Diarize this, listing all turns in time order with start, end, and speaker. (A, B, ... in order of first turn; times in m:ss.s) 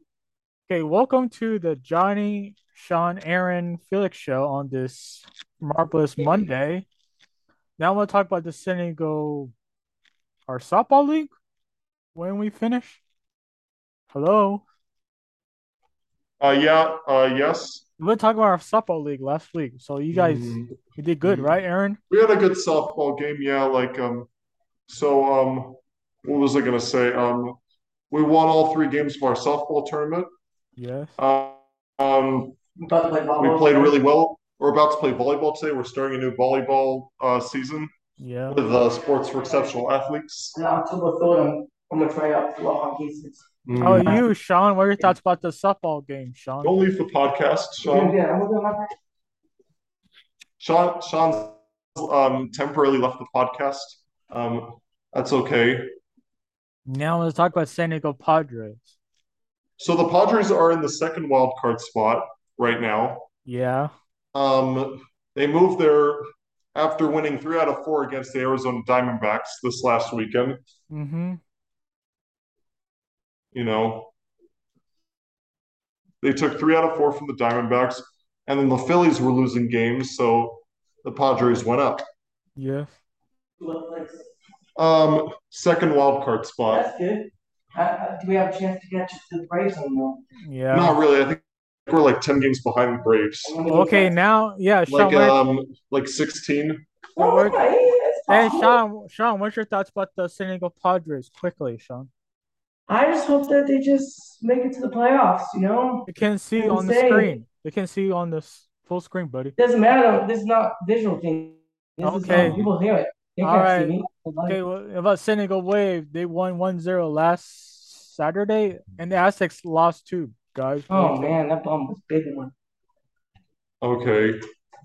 0:00.7-0:06.8 A
0:06.2-0:06.4 B
0:07.8-0:09.5 A
0:10.5-0:11.3 A
0:12.1-0:13.0 A
0:14.1-0:14.6 A
0:16.4-0:17.8 C
0:18.0-0:22.0 A
0:20.1-0:21.5 C
0:22.1-0:24.3 C
0:24.9-0:27.6 C
0:28.1-0:30.3 C
0:30.8-0:31.2 A
0:31.2-0:32.6 C
0:32.8-0:33.9 B
0:33.4-0:37.9 C
0:38.2-0:38.6 A
0:38.5-0:40.5 C
0:38.6-0:39.7 B
0:40.5-0:44.2 B
0:43.6-0:44.1 C
0:43.8-0:46.9 A
0:46.6-0:48.2 C
0:47.8-0:48.9 B
0:50.6-0:55.9 C
0:56.9-0:58.9 A
0:59.8-1:03.3 C
1:03.4-1:03.9 A
1:04.3-1:06.2 C
1:06.7-1:10.6 C
1:10.9-1:11.4 A
1:13.5-1:14.1 C
1:16.2-1:22.0 C
1:22.6-1:22.9 A
1:23.6-1:24.3 B
1:24.8-1:26.8 C
1:26.7-1:30.2 B
1:30.4-1:31.0 A
1:30.7-1:33.5 C
1:33.4-1:34.1 B
1:33.7-1:35.4 A
1:34.9-1:36.8 C
1:37.2-1:38.8 B
1:37.2-1:37.6 A
1:38.3-1:42.1 A
1:42.9-1:47.3 B
1:46.1-1:49.5 A
1:49.6-1:54.6 B
1:52.0-1:52.6 A
1:52.3-1:52.7 C
1:53.4-1:53.9 A
1:54.5-2:01.2 A
2:00.9-2:02.5 B
2:03.8-2:04.4 C